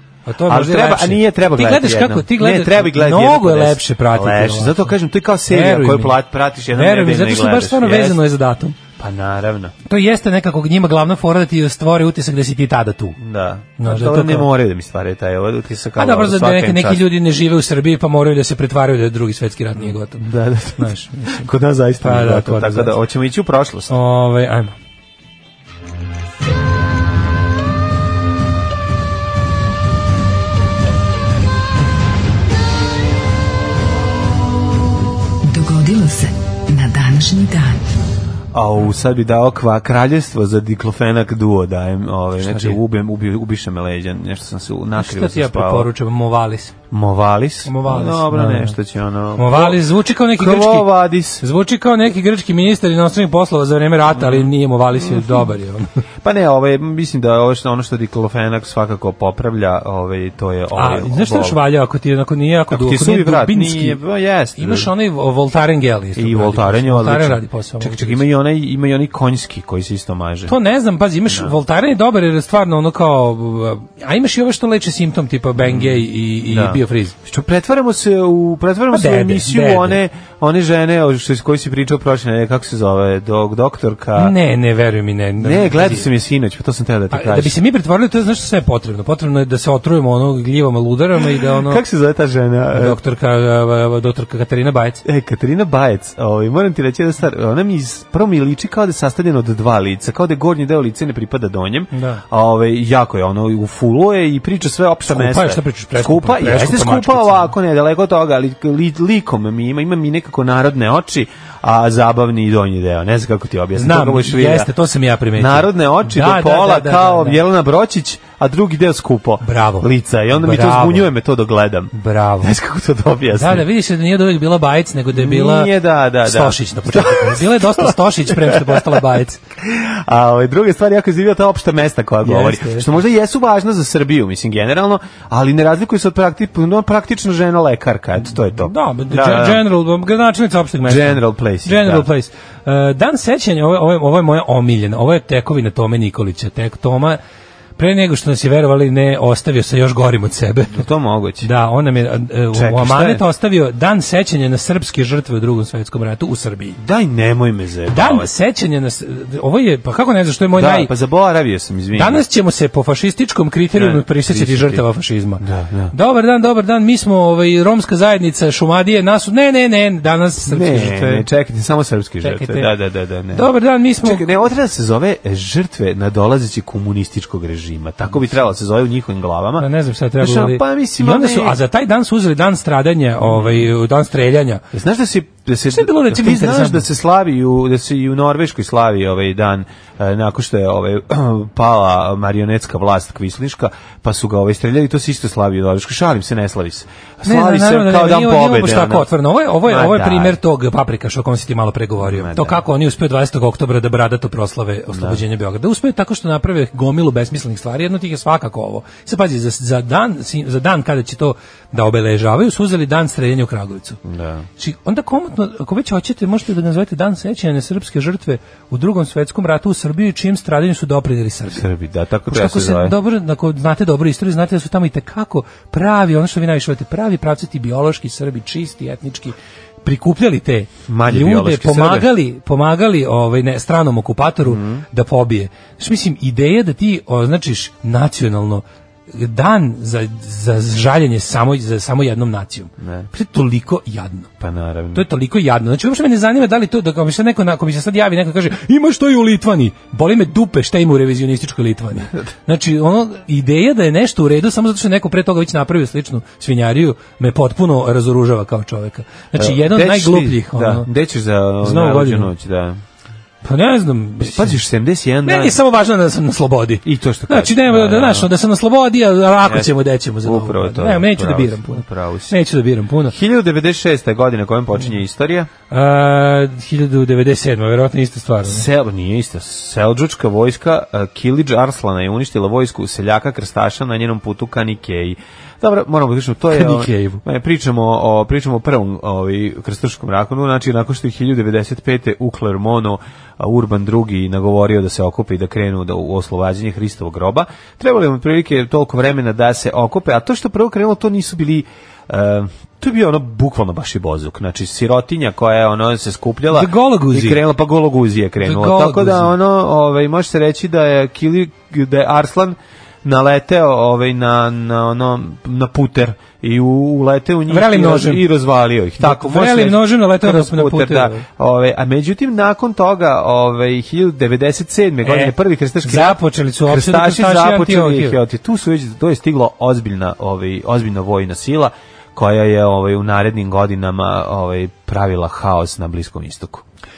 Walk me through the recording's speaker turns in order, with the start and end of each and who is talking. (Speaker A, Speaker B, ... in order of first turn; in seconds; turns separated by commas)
Speaker A: 0.3-4.9, Speaker B: 0.5-8.2, Speaker A: 5.5-6.2, Speaker A: 6.7-8.8, Speaker B: 9.0-9.7, Speaker A: 9.9-13.2, Speaker B: 13.2-17.1, Speaker A: 13.8-14.5, Speaker A: 15.9-20.2, Speaker B: 19.8-23.9, Speaker A: 20.8-21.5, Speaker A: 22.0-22.9, Speaker A: 23.9-24.7, Speaker C: 35.5-37.8, Speaker B: 38.5-45.9, Speaker A: 42.4-42.8, Speaker A: 45.0-46.7, Speaker B: 46.9-51.4, Speaker A: 47.6-48.8, Speaker A: 49.4-55.9, Speaker B: 54.1-55.5, Speaker B: 56.2-61.6, Speaker A: 60.7-64.0, Speaker B: 62.7-64.9, Speaker A: 64.6-68.2, Speaker B: 66.2-70.5, Speaker A: 70.5-77.1, Speaker B: 75.6-84.3, Speaker A: 78.9-80.0, Speaker A: 84.2-86.1, Speaker B: 85.4-87.5, Speaker A: 87.1-91.8, Speaker B: 91.6-93.0, Speaker A: 92.7-95.0, Speaker B: 95.0-114.7, Speaker A: 101.9-102.2, Speaker A: 105.1-107.5, Speaker A: 113.8-117.4, Speaker B: 115.4-123.7, Speaker A: 119.4-121.1, Speaker A: 121.9-122.5, Speaker A: 123.3-129.4, Speaker B: 125.1-129.0, Speaker B: 129.6-139.6, Speaker A: 132.2-132.9, Speaker A: 138.6-147.2, Speaker B: 140.8-142.1, Speaker A: 147.8-150.8, Speaker B: 150.7-151.5, Speaker A: 151.4-156.8, Speaker B: 152.5-153.2, Speaker B: 156.8-158.3, Speaker A: 157.9-160.9, Speaker B: 160.5-162.2, Speaker A: 161.9-171.3, Speaker B: 163.7-164.8, Speaker B: 165.4-165.9, Speaker B: 170.4-173.5, Speaker A: 172.2-172.7, Speaker A: 173.3-174.3, Speaker B: 174.0-179.7, Speaker A: 179.6-184.6, Speaker B: 180.2-181.6, Speaker B: 183.2-183.7, Speaker B: 184.7-199.1, Speaker A: 185.7-186.8, Speaker A: 197.2-214.0, Speaker B: 199.6-200.4, Speaker B: 202.0-202.6, Speaker B: 204.9-205.2, Speaker B: 214.0-214.5, Speaker A: 214.6-221.7, Speaker B: 221.5-222.9, Speaker A: 222.3-244.3, Speaker B: 230.9-232.1, Speaker B: 234.4-234.8, Speaker B: 242.8-243.1, Speaker B: 244.4-245.0, Speaker A: 244.9-260.9, Speaker B: 252.0-252.3, Speaker B: 259.3-262.8, Speaker A: 261.6-262.3, Speaker A: 263.4-264.6, Speaker B: 264.2-265.6, Speaker A: 265.2-273.1, Speaker B: 266.8-268.3, Speaker B: 269.4-272.4, Speaker B: 273.1-275.5, Speaker A: 275.7-278.6, Speaker B: 278.4-336.6, Speaker A: 286.5-287.2, Speaker A: 306.5-307.4, Speaker A: 308.4-309.3, Speaker A: 317.5-318.2, Speaker A: 319.0-321.2, Speaker A: 325.0-328.2